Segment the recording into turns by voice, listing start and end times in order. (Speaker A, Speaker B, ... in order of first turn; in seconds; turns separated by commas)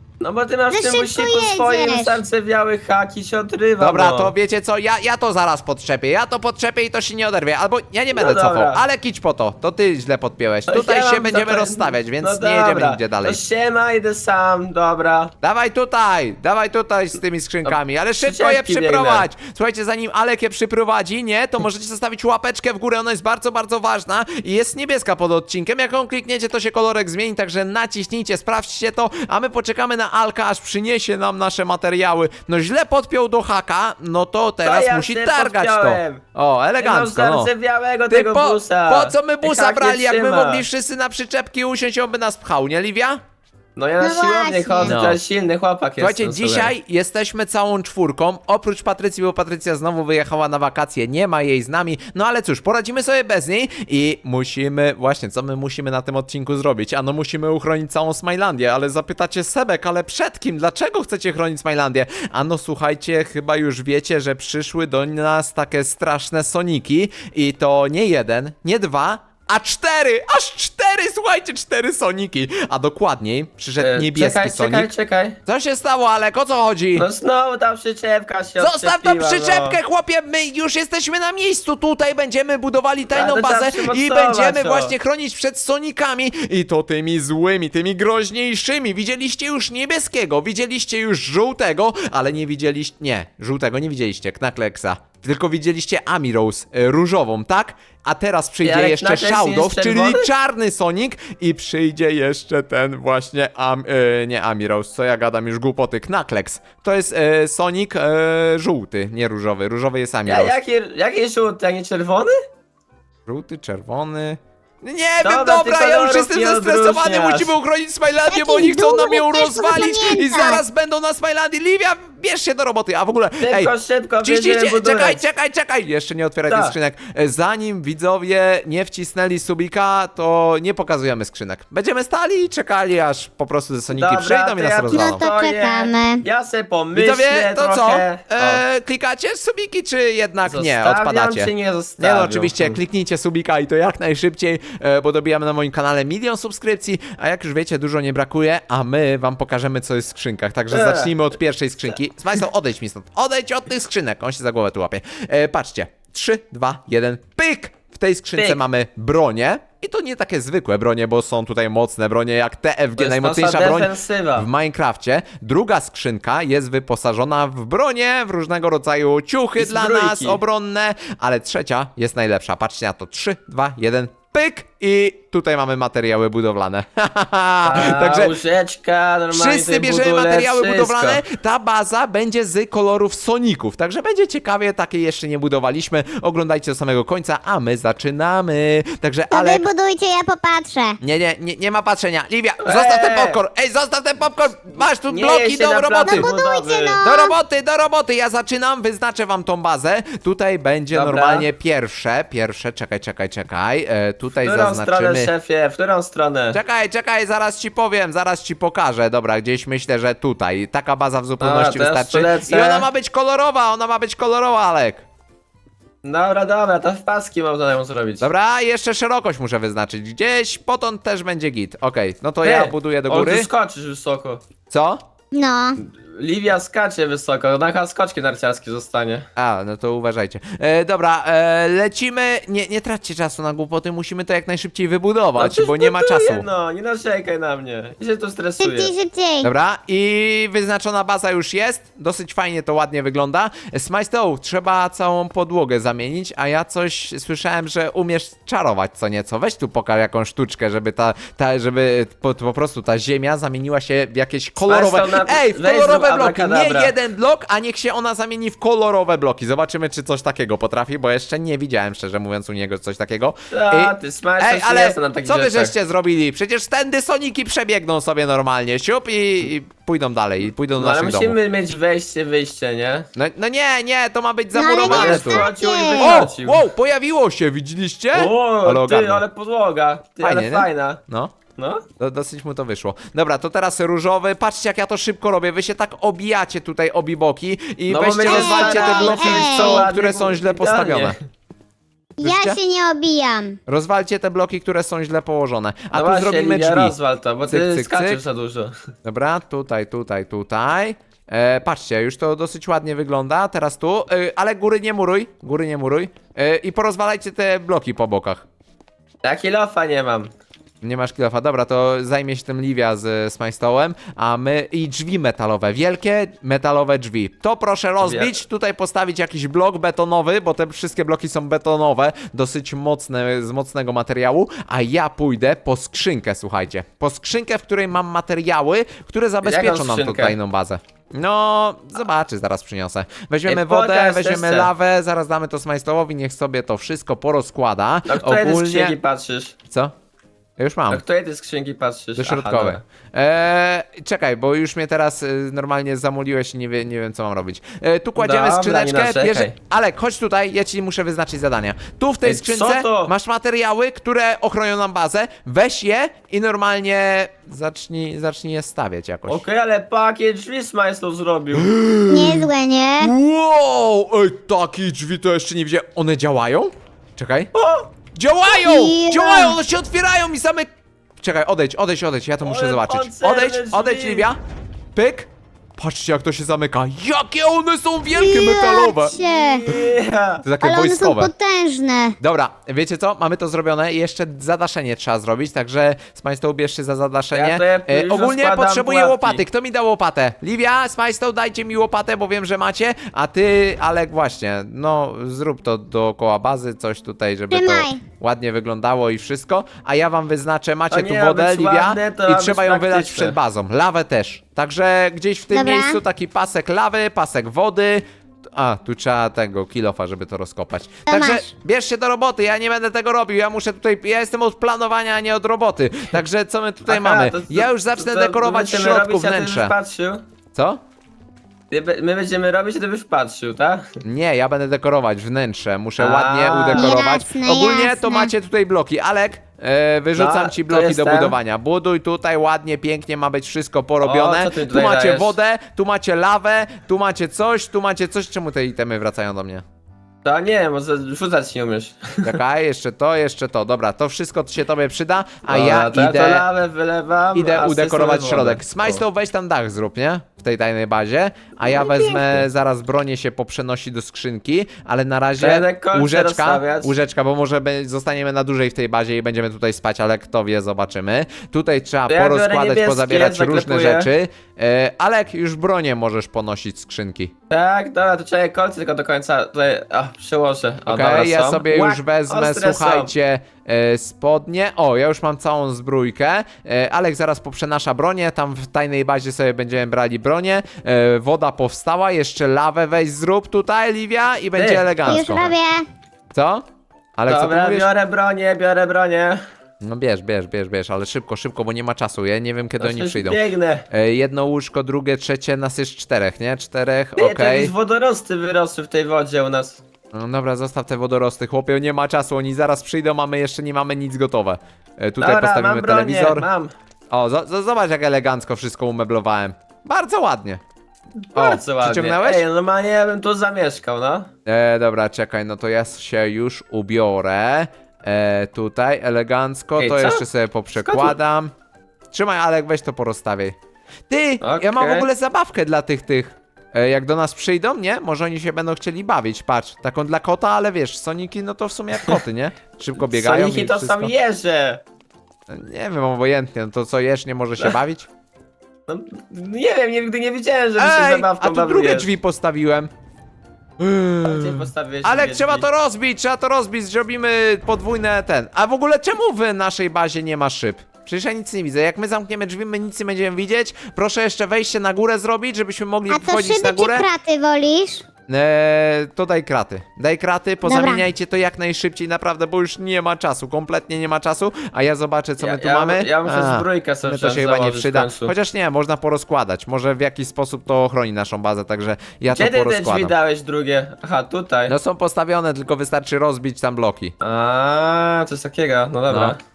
Speaker A: 0.2-4.3, Speaker B: 0.7-2.2, Speaker C: 3.8-13.4, Speaker A: 8.1-8.8, Speaker A: 10.7-15.3, Speaker C: 15.4-37.5, Speaker A: 17.6-19.3, Speaker A: 34.6-36.2, Speaker A: 36.8-40.6, Speaker C: 38.1-43.2, Speaker A: 43.8-46.7, Speaker B: 44.0-45.0, Speaker C: 44.8-45.2, Speaker C: 46.0-74.9, Speaker A: 73.8-75.4, Speaker C: 75.5-77.1, Speaker A: 76.9-79.8, Speaker C: 78.6-110.5, Speaker A: 83.1-84.9, Speaker A: 98.6-100.3, Speaker A: 110.2-112.3, Speaker C: 113.3-135.3, Speaker A: 115.2-117.5, Speaker B: 118.3-120.6, Speaker A: 123.4-125.2, Speaker A: 126.5-126.8, Speaker A: 133.9-138.6, Speaker B: 134.9-136.2, Speaker C: 136.9-178.3, Speaker A: 140.4-142.8, Speaker A: 150.7-151.1, Speaker A: 163.0-164.5, Speaker A: 169.6-170.4, Speaker A: 177.6-181.2, Speaker C: 179.3-189.7, Speaker B: 189.3-191.0, Speaker C: 191.0-196.3, Speaker A: 192.6-193.4, Speaker A: 195.1-197.0, Speaker B: 196.1-197.3, Speaker C: 197.0-205.3, Speaker A: 200.9-201.5, Speaker A: 204.4-206.6, Speaker C: 206.5-215.0, Speaker A: 211.4-212.9, Speaker A: 216.0-218.3, Speaker C: 218.2-223.5, Speaker A: 222.4-224.4, Speaker C: 224.7-225.0, Speaker B: 225.3-225.8, Speaker A: 225.8-229.3, Speaker C: 229.3-236.4, Speaker A: 235.4-238.9, Speaker B: 238.6-239.5, Speaker C: 239.4-271.4, Speaker A: 254.6-256.9, Speaker A: 263.5-265.7, Speaker A: 270.8-273.1, Speaker C: 273.1-275.5, Speaker B: 274.5-276.2, Speaker A: 274.8-276.6, Speaker C: 276.0-279.2, Speaker A: 278.1-281.0, Speaker C: 280.2-281.4, Speaker A: 281.6-281.8, Speaker C: 282.0-291.1, Speaker A: 287.9-291.2, Speaker B: 288.2-289.8, Speaker B: 292.2-293.6, Speaker C: 292.2-292.6, Speaker C: 293.7-296.9, Speaker A: 295.9-298.7, Speaker C: 297.4-298.2, Speaker C: 299.0-308.4, Speaker A: 309.2-310.3, Speaker C: 310.8-338.9, Speaker A: 318.0-318.4, Speaker A: 329.4-330.4, Speaker A: 333.4-334.7, Speaker A: 338.1-339.6, Speaker C: 339.7-339.9, Speaker C: 340.6-341.0, Speaker A: 340.9-342.8, Speaker C: 342.1-359.4, Speaker A: 348.2-349.5, Speaker A: 352.2-353.1, Speaker A: 359.3-361.7, Speaker C: 361.5-362.5, Speaker B: 362.1-363.1, Speaker C: 363.0-367.5, Speaker A: 367.5-367.9, Speaker C: 368.1-374.4, Speaker B: 368.4-369.6, Speaker A: 372.4-374.3, Speaker C: 374.9-379.1, Speaker B: 378.1-379.6, Speaker A: 379.1-380.4, Speaker C: 380.4-381.3, Speaker B: 380.6-382.2, Speaker C: 382.2-419.7, Speaker A: 387.3-389.4, Speaker B: 397.5-398.0, Speaker A: 400.9-403.4, Speaker B: 405.5-406.0, Speaker B: 411.1-411.4, Speaker A: 416.9-420.2, Speaker C: 420.5-420.8, Speaker A: 421.7-423.9, Speaker C: 424.0-439.6, Speaker A: 426.0-426.9, Speaker B: 426.8-428.3, Speaker A: 430.1-431.4, Speaker A: 434.0-435.3, Speaker A: 440.2-442.4, Speaker C: 442.2-446.4, Speaker A: 445.5-449.0, Speaker C: 447.3-467.3, Speaker A: 451.6-452.4, Speaker A: 455.4-456.9, Speaker A: 462.1-464.1, Speaker A: 467.5-473.1, Speaker C: 470.9-485.5, Speaker A: 484.6-485.2, Speaker B: 485.1-485.8, Speaker C: 486.3-486.6, Speaker C: 487.2-487.9, Speaker A: 487.3-489.4, Speaker C: 489.8-497.7, Speaker A: 492.8-493.9, Speaker A: 497.2-499.8, Speaker C: 500.1-506.5, Speaker A: 505.2-506.7, Speaker C: 507.1-510.6, Speaker C: 511.3-512.4, Speaker A: 511.3-514.3, Speaker C: 514.5-521.5, Speaker A: 519.8-520.2, Speaker A: 520.8-521.2, Speaker C: 522.1-523.5, Speaker C: 524.1-534.1, Speaker A: 524.4-525.1, Speaker A: 533.1-534.8, Speaker C: 535.5-538.1, Speaker A: 538.9-542.1, Speaker C: 540.8-542.9, Speaker C: 543.8-557.0, Speaker A: 544.2-545.7, Speaker B: 556.1-558.0, Speaker C: 558.3-573.1, Speaker B: 560.6-561.0, Speaker A: 565.4-568.3, Speaker A: 572.3-574.7, Speaker C: 574.7-577.1, Speaker A: 577.2-579.4, Speaker C: 579.1-579.4